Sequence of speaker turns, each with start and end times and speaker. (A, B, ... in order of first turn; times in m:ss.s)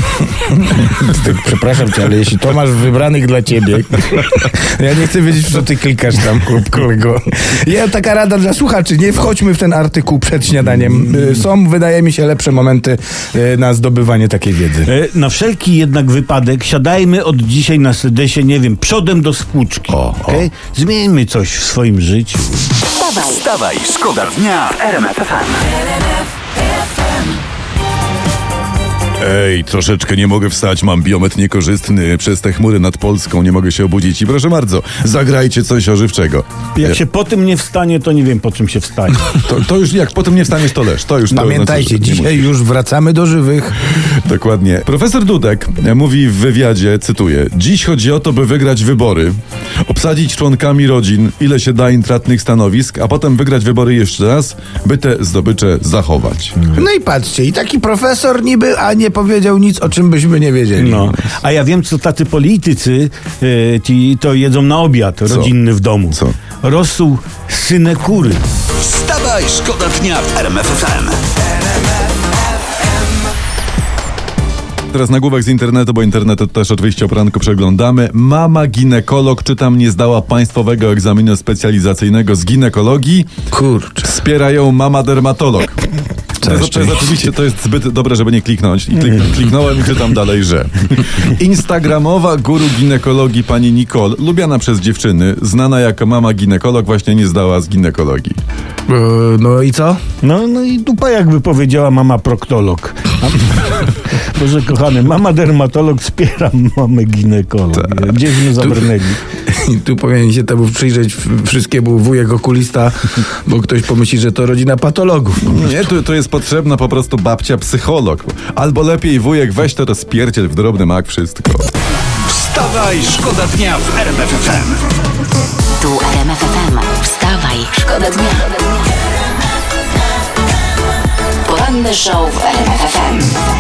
0:00.4-0:14.9 A
0:14.8-0:22.6 B
0:19.9-0:20.5 C
0:23.0-0:23.4 D
0:23.0-0:25.7 E
0:29.2-0:37.0 C
0:36.7-0:39.3 B
0:39.3-0:42.5 C
0:41.3-0:43.8 A
0:44.0-0:56.6 C
0:56.7-1:01.1 A
1:00.8-1:08.4 B
1:05.2-1:05.5 C
1:06.1-1:06.4 C
1:08.8-1:11.2 E
1:14.9-1:23.3 C
1:23.5-1:24.0 A
1:24.0-1:25.8 C
1:26.4-1:38.4 C
1:26.5-1:26.8 A
1:38.9-1:40.0 A
1:40.2-1:49.2 B
1:47.7-1:48.1 C
1:49.5-1:55.6 A
1:55.4-2:01.7 C
2:02.2-2:04.8 E
2:05.8-2:08.8 D
2:11.4-2:13.4 D